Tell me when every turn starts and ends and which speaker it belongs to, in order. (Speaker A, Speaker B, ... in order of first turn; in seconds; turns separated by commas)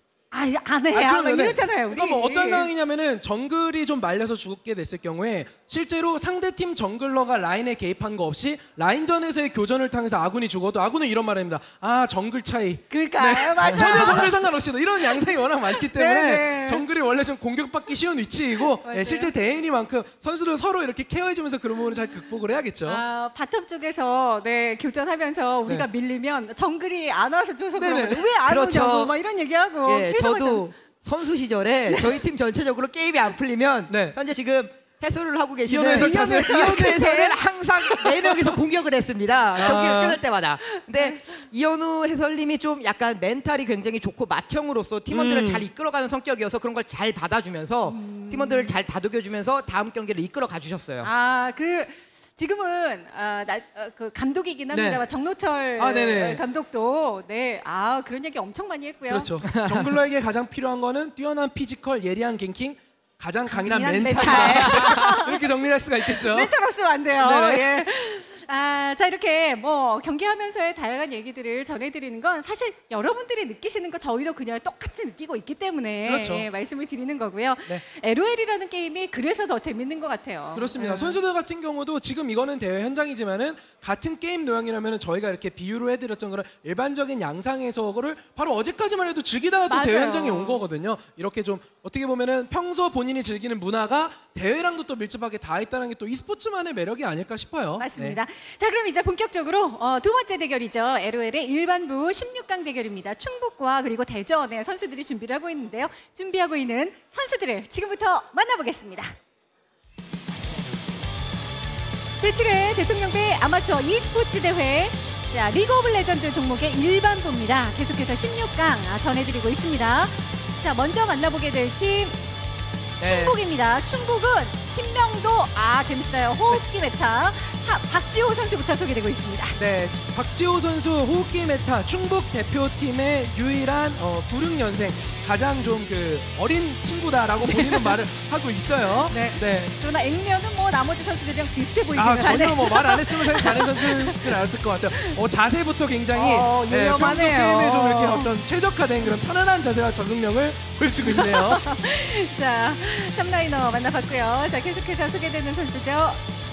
Speaker A: 0.3-2.7, Speaker B: 0.9-23.0, Speaker A: 12.9-14.3, Speaker C: 13.7-14.1, Speaker A: 15.7-16.8, Speaker A: 18.8-19.3, Speaker A: 22.8-30.6, Speaker B: 27.8-28.2, Speaker C: 28.4-29.1, Speaker C: 29.9-51.1, Speaker A: 31.9-32.1, Speaker B: 33.9-34.1, Speaker B: 35.7-37.0, Speaker A: 35.9-37.4, Speaker B: 39.5-40.2, Speaker A: 40.7-41.2, Speaker B: 45.1-45.6, Speaker A: 47.9-48.7, Speaker A: 51.0-59.3, Speaker B: 54.7-55.0, Speaker B: 55.8-56.4, Speaker B: 59.1-66.5, Speaker C: 59.4-59.9, Speaker A: 63.5-65.4, Speaker C: 64.2-65.2, Speaker A: 66.0-81.2, Speaker B: 67.2-67.8, Speaker B: 76.0-76.5, Speaker B: 80.5-98.2, Speaker A: 89.7-90.6, Speaker A: 97.8-109.1, Speaker A: 112.2-122.2, Speaker A: 123.0-129.6, Speaker C: 123.0-123.4, Speaker B: 129.6-139.7, Speaker A: 137.4-138.0, Speaker A: 139.1-144.4, Speaker B: 141.9-151.6, Speaker A: 146.1-148.3, Speaker A: 151.0-156.2